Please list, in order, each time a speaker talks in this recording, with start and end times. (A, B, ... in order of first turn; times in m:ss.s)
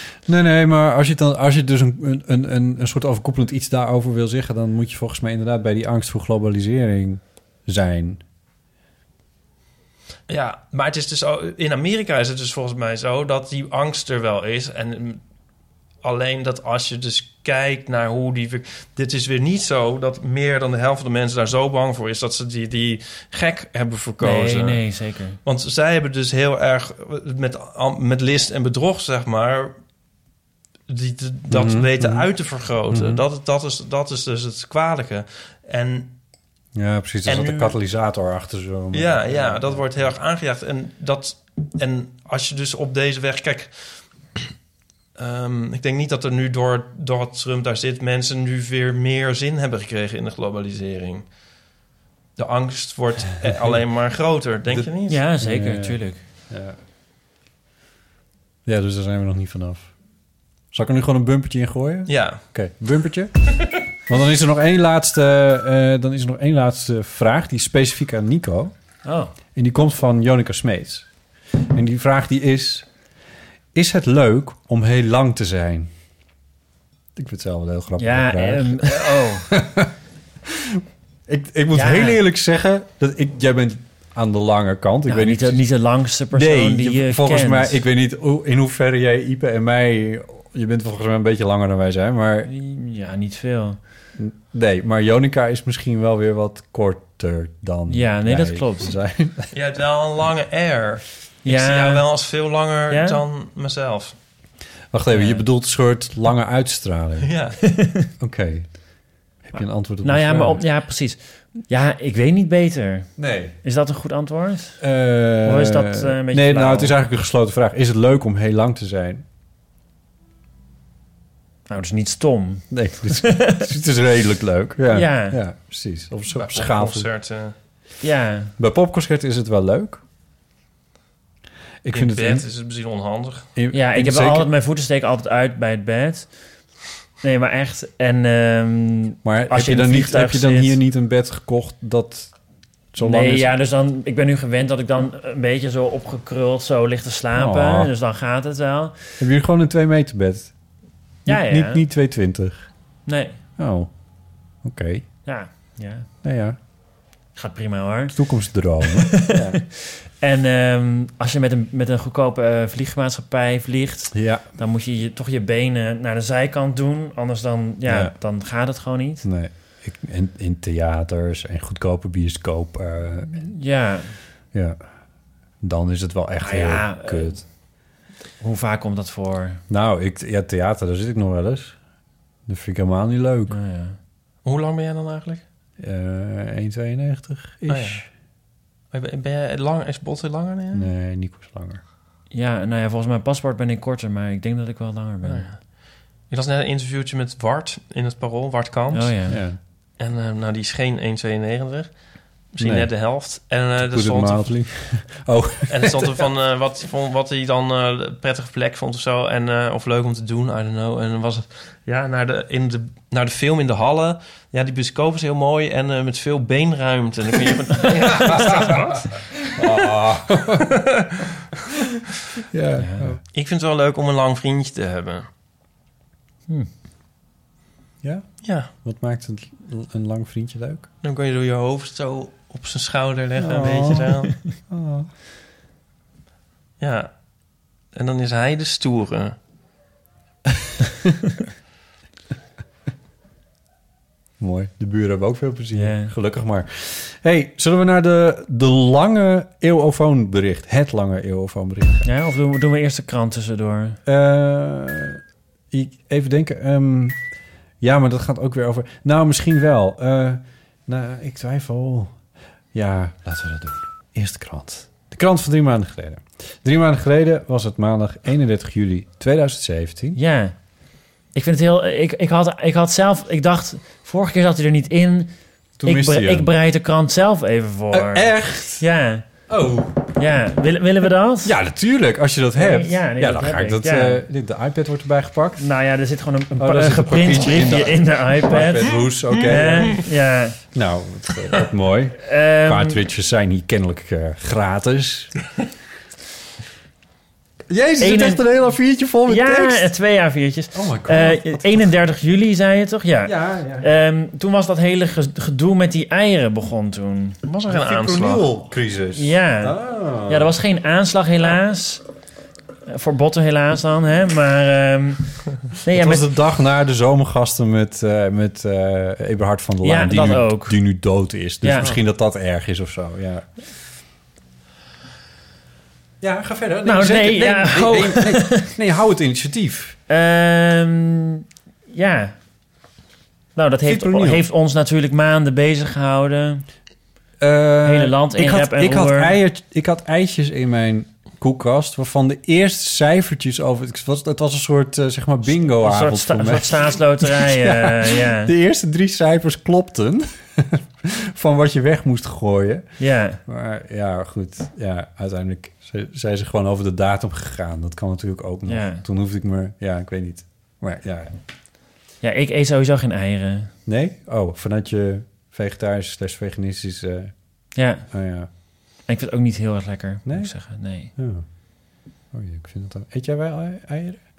0:00.2-0:08.2 A
0:10.3-0:15.2 B
0:16.0-0:24.9 B
0:24.2-0:25.4 C
0:25.4-0:29.8 B
0:30.9-0:36.1 B
0:31.5-0:32.3 A
0:32.9-0:33.2 A
0:36.7-0:40.1 A
0:37.2-0:37.7 B
0:38.9-0:44.3 B
0:45.2-0:51.5 B
0:52.4-0:55.2 B
0:54.6-0:56.8 A
0:55.1-0:56.2 C
0:58.6-1:13.1 A
1:02.1-1:02.7 B
1:09.0-1:09.3 C
1:13.7-1:15.9 A
1:17.2-1:19.9 A
1:18.0-1:19.5 C
1:21.3-1:32.5 A
1:21.7-1:22.2 C
1:25.1-1:27.8 C
1:32.5-1:33.8 C
1:34.2-1:39.5 A
1:37.9-1:38.9 C
1:39.5-1:44.1 B
1:41.4-1:42.2 C
1:42.9-1:43.2 C
1:44.9-1:50.6 A
1:45.1-1:45.4 C
1:47.2-1:47.6 B
1:47.7-1:48.1 C
1:49.5-1:57.0 C
1:53.2-1:53.6 A
1:54.8-1:59.2 A
2:01.7-2:03.6 C
2:02.7-2:07.1 A
2:04.9-2:05.4 C
2:06.3-2:07.5 B
2:08.0-2:08.5 C
2:08.6-2:10.0 A
2:11.8-2:12.4 A
2:11.9-2:13.5 B
2:13.5-2:14.5 A
2:13.7-2:16.7 C
2:17.2-2:20.8 C
2:19.2-2:23.5 A
2:23.0-2:29.2 C
2:27.3-2:27.9 A
2:29.2-2:35.2 A
2:31.2-2:31.8 C
2:33.0-2:33.4 C
2:35.2-2:36.1 C
2:36.2-2:36.6 A
2:37.3-2:39.3 C
2:38.1-2:39.6 A
2:40.2-2:49.2 C
2:44.1-2:44.5 A
2:47.8-2:48.2 A
2:49.2-2:53.6 A
2:53.3-2:54.2 C
2:54.5-2:57.5 A
2:56.4-2:59.6 C
2:59.7-3:01.8 A
3:02.4-3:03.6 A
3:03.5-3:04.0 C
3:04.4-3:05.4 B
3:05.8-3:08.0 A
3:07.7-3:08.1 B
3:08.9-3:10.9 B
3:10.7-3:11.8 A
3:12.3-3:15.5 C
3:15.2-3:25.0 B
3:18.9-3:19.4 C
3:19.3-3:19.6 A
3:22.6-3:26.2 A
3:25.7-3:39.4 B
3:38.3-3:38.7 A
3:39.6-3:40.6 A
3:42.5-3:43.2 A
3:42.8-3:43.1 C
3:43.3-3:45.3 B
3:48.0-3:50.9 A
3:48.4-3:48.7 B
3:51.0-3:54.4 B
3:53.4-3:55.1 A
3:56.8-3:59.4 B
4:04.4-4:12.1 A
4:05.7-4:06.1 C
4:12.0-4:14.0 C
4:14.0-4:15.2 A
4:15.7-4:30.2 A
4:30.1-4:39.5 C
4:35.8-4:36.5 A
4:37.9-4:38.9 A
4:39.5-4:40.2 A
4:40.2-4:41.5 C
4:41.4-4:45.7 A
4:42.5-4:44.2 C
4:45.6-4:50.6 C
4:46.5-4:50.0 A
4:50.7-4:55.3 A
4:52.3-4:53.0 C
4:57.7-4:59.9 A
4:58.0-4:58.7 C
4:59.2-5:07.4 C
5:00.7-5:01.9 A
5:03.2-5:03.9 A
5:07.4-5:08.4 B
5:07.7-5:10.5 A
5:09.2-5:12.0 C
5:12.9-5:16.2 C
5:15.9-5:23.6 A
5:19.8-5:21.1 C
5:21.6-5:21.9 C
5:26.2-5:30.0 A
5:26.8-5:28.6 C
5:30.1-5:32.4 C
5:33.5-5:36.7 C
5:33.8-5:34.4 A
5:37.4-6:01.4 A
5:37.8-5:39.3 C
5:45.8-5:48.5 C
5:53.0-5:53.4 C
5:58.7-5:59.0 C
6:02.2-6:03.7 C
6:03.8-6:08.5 A
6:07.7-6:11.1 C
6:10.2-6:14.2 A